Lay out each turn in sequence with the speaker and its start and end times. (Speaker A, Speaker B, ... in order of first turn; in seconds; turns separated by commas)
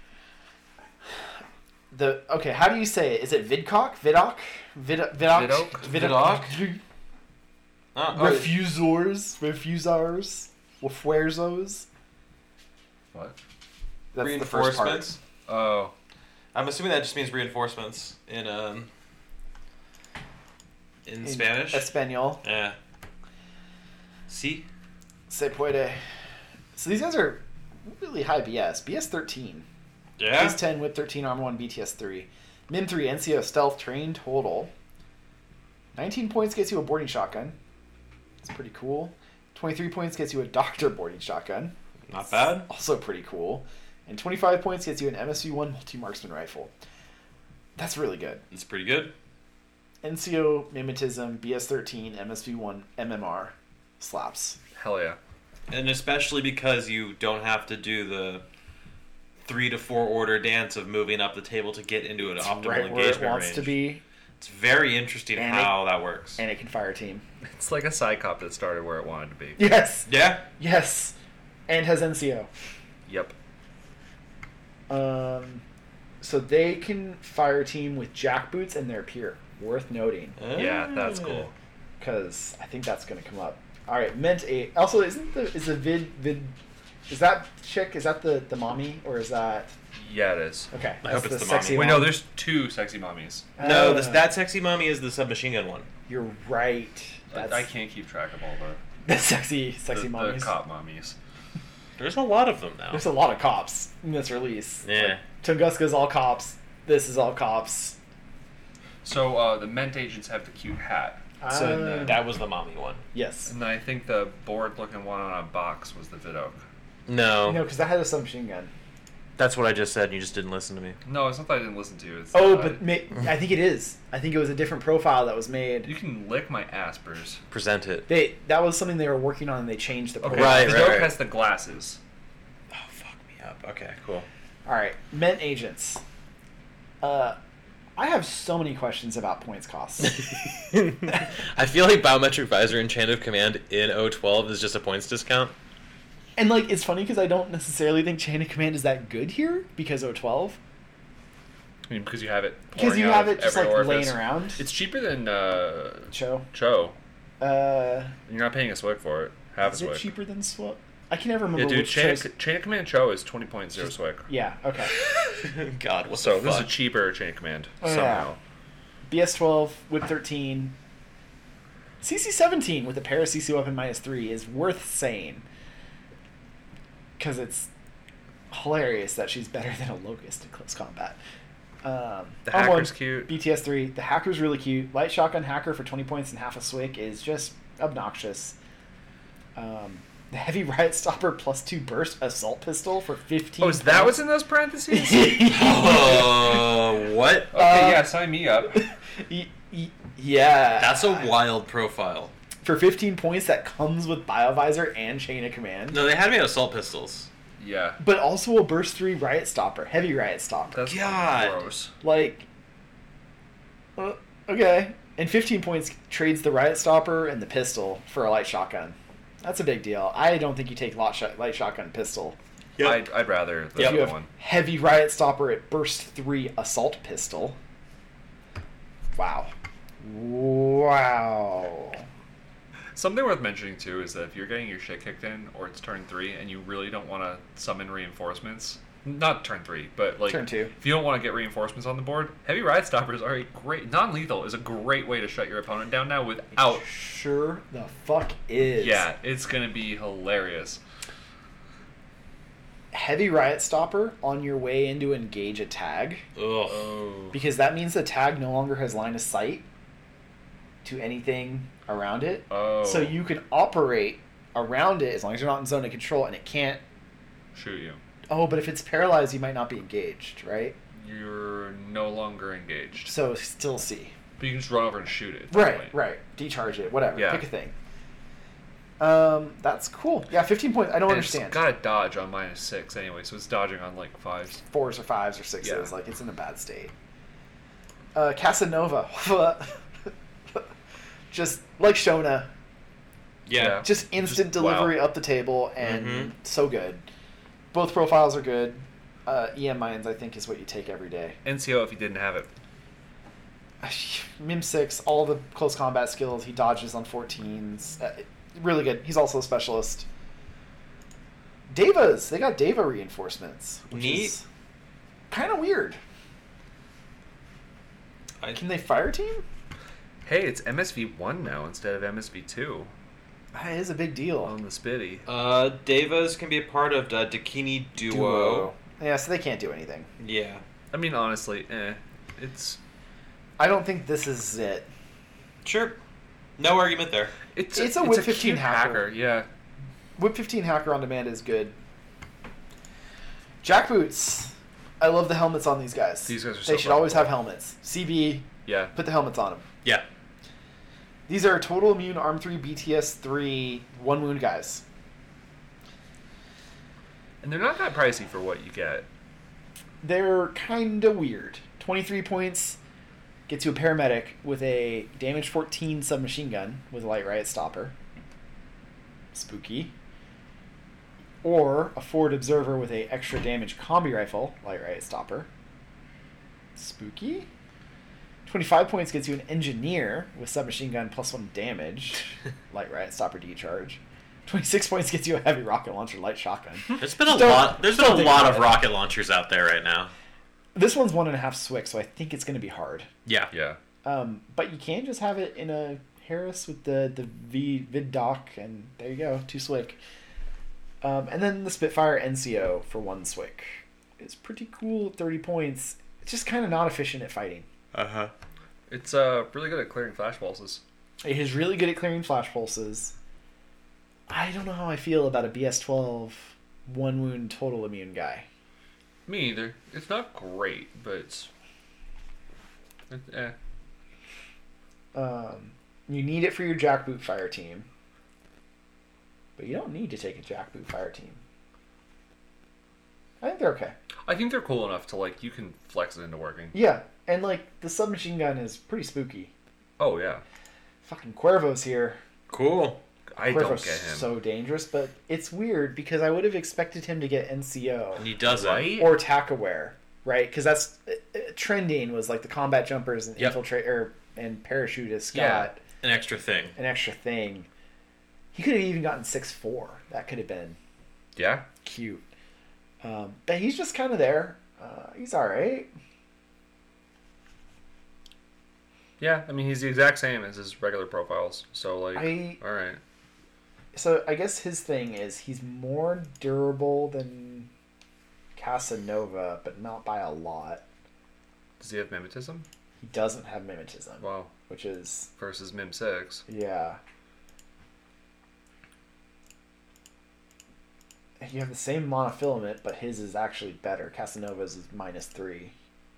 Speaker A: 1.9-6.8, Speaker B: 5.3-5.9, Speaker C: 5.8-6.6, Speaker C: 8.0-8.6, Speaker A: 8.1-11.9, Speaker A: 14.1-15.2, Speaker C: 14.2-15.2, Speaker B: 15.5-15.9, Speaker C: 16.5-18.9, Speaker C: 21.1-21.9, Speaker A: 21.2-22.4, Speaker C: 22.4-22.8, Speaker C: 24.3-24.7, Speaker A: 25.3-26.0, Speaker A: 26.8-29.6, Speaker C: 30.2-30.6, Speaker A: 30.3-34.7, Speaker A: 36.0-37.6, Speaker A: 38.4-41.7, Speaker C: 42.1-42.7, Speaker A: 42.5-46.7, Speaker A: 47.8-48.4, Speaker C: 48.5-49.1, Speaker A: 50.0-54.6, Speaker B: 54.8-55.2, Speaker C: 55.7-58.5, Speaker C: 59.5-63.8, Speaker A: 62.2-64.0, Speaker C: 64.4-66.4, Speaker A: 65.4-65.8, Speaker A: 66.4-67.2, Speaker B: 67.5-69.6, Speaker A: 69.6-71.2, Speaker C: 70.1-70.5, Speaker A: 71.7-72.5, Speaker B: 73.1-73.3, Speaker A: 74.9-75.6, Speaker A: 76.2-80.4, Speaker C: 80.4-81.5, Speaker B: 80.5-81.5, Speaker A: 82.0-86.5, Speaker A: 87.1-89.8, Speaker B: 90.0-90.7, Speaker A: 90.7-92.2, Speaker C: 91.0-92.0, Speaker B: 91.7-93.5, Speaker A: 93.6-94.3, Speaker C: 93.6-95.9, Speaker A: 96.1-97.6, Speaker B: 97.3-98.8, Speaker A: 99.1-100.5, Speaker B: 99.9-101.2, Speaker C: 102.0-103.1, Speaker A: 102.9-108.0, Speaker C: 104.8-105.2, Speaker B: 109.0-112.2, Speaker A: 111.4-112.3, Speaker C: 112.0-113.0, Speaker A: 113.1-113.5, Speaker B: 113.5-116.6, Speaker C: 117.1-117.6, Speaker A: 117.4-118.7, Speaker C: 119.4-121.0, Speaker B: 121.1-122.8, Speaker A: 122.3-125.9, Speaker B: 125.8-127.4, Speaker C: 127.5-128.1, Speaker A: 128.1-131.0, Speaker B: 130.2-132.0, Speaker C: 130.3-131.2, Speaker C: 133.4-134.3, Speaker A: 134.7-136.0, Speaker A: 137.0-137.4, Speaker A: 138.0-140.4, Speaker C: 140.0-145.6, Speaker A: 146.4-150.6, Speaker B: 151.9-157.0, Speaker A: 152.7-154.6, Speaker A: 156.1-156.5, Speaker A: 157.4-158.2, Speaker B: 158.3-160.1, Speaker A: 159.6-162.3, Speaker B: 161.6-164.3, Speaker A: 164.3-164.9, Speaker C: 165.3-166.7, Speaker B: 166.1-168.4, Speaker A: 167.8-168.3, Speaker A: 169.1-170.8, Speaker A: 172.0-175.4, Speaker A: 177.2-177.7, Speaker A: 178.5-181.2, Speaker A: 181.8-188.6, Speaker B: 182.5-183.3, Speaker A: 189.6-194.2, Speaker B: 193.6-195.4, Speaker A: 194.9-196.8, Speaker C: 195.5-197.5, Speaker B: 197.5-198.9, Speaker A: 197.5-201.3, Speaker C: 200.8-202.3, Speaker A: 202.6-206.0, Speaker C: 205.9-207.3, Speaker B: 207.6-208.0, Speaker A: 208.0-210.9, Speaker B: 210.7-211.9, Speaker C: 210.9-211.7, Speaker A: 212.0-212.5, Speaker A: 214.0-222.4, Speaker C: 222.8-223.0, Speaker B: 222.8-224.3, Speaker C: 223.8-224.1, Speaker A: 223.8-227.6, Speaker A: 229.2-232.1, Speaker B: 232.9-246.9, Speaker A: 240.3-240.7, Speaker A: 246.6-249.1, Speaker B: 248.8-250.8, Speaker A: 252.9-256.2, Speaker C: 256.4-256.9, Speaker B: 256.7-257.4, Speaker A: 257.3-259.7, Speaker A: 260.8-266.8, Speaker B: 262.5-263.2, Speaker B: 267.5-268.0, Speaker A: 268.3-270.8, Speaker B: 271.0-273.1, Speaker A: 273.1-274.1, Speaker B: 274.4-276.0, Speaker A: 275.5-277.7, Speaker B: 277.2-277.5, Speaker A: 279.0-281.6, Speaker B: 281.1-284.6, Speaker A: 284.7-286.9, Speaker B: 285.6-285.9, Speaker A: 288.1-290.7, Speaker A: 291.3-292.5, Speaker C: 293.5-293.8, Speaker B: 293.5-295.1, Speaker A: 293.8-297.1, Speaker C: 295.8-296.3, Speaker A: 297.7-301.4, Speaker B: 301.4-302.5, Speaker A: 303.8-310.1, Speaker A: 311.7-314.4, Speaker C: 313.9-314.4, Speaker A: 315.3-316.0, Speaker A: 318.5-319.4, Speaker B: 320.2-322.9, Speaker A: 323.5-324.5, Speaker B: 324.4-325.3, Speaker C: 325.3-328.7, Speaker A: 328.0-330.1, Speaker C: 330.2-330.6, Speaker B: 330.9-332.8, Speaker A: 333.6-334.9, Speaker C: 335.6-336.0, Speaker C: 336.6-337.4, Speaker B: 337.5-339.5, Speaker A: 337.7-339.1, Speaker A: 340.2-341.8, Speaker A: 343.6-349.6, Speaker B: 346.3-347.4, Speaker B: 348.6-348.9, Speaker A: 351.3-354.8, Speaker B: 357.4-359.1, Speaker A: 360.0-362.8, Speaker A: 363.5-367.9, Speaker A: 369.3-369.9, Speaker A: 371.4-375.5, Speaker A: 376.8-377.5, Speaker A: 378.5-388.8, Speaker C: 387.0-390.1, Speaker A: 390.8-393.1, Speaker C: 393.2-393.5, Speaker B: 393.5-393.8, Speaker A: 394.0-400.0, Speaker A: 401.0-407.7, Speaker C: 407.9-408.3, Speaker B: 408.9-410.8, Speaker A: 411.2-413.1, Speaker A: 414.3-418.5, Speaker B: 419.3-421.5, Speaker B: 423.1-423.6, Speaker A: 425.1-427.9, Speaker A: 429.6-431.4, Speaker A: 433.4-433.9, Speaker B: 434.3-436.8, Speaker A: 436.7-439.5, Speaker B: 440.0-440.4, Speaker A: 441.0-442.2, Speaker C: 442.5-443.0, Speaker B: 443.3-444.3, Speaker A: 443.4-448.3, Speaker C: 448.2-449.0, Speaker B: 448.5-449.2, Speaker A: 449.0-455.8, Speaker B: 455.3-455.7, Speaker C: 456.0-456.8, Speaker A: 456.8-457.7, Speaker A: 458.5-460.8, Speaker B: 461.4-461.7, Speaker A: 461.8-462.2, Speaker A: 463.0-465.9, Speaker B: 469.2-473.0, Speaker A: 472.1-472.6, Speaker A: 473.9-477.7, Speaker A: 478.6-480.8, Speaker B: 481.8-482.7, Speaker A: 483.0-485.3, Speaker B: 484.2-484.5, Speaker B: 485.4-486.4, Speaker A: 486.5-487.0, Speaker A: 491.4-495.7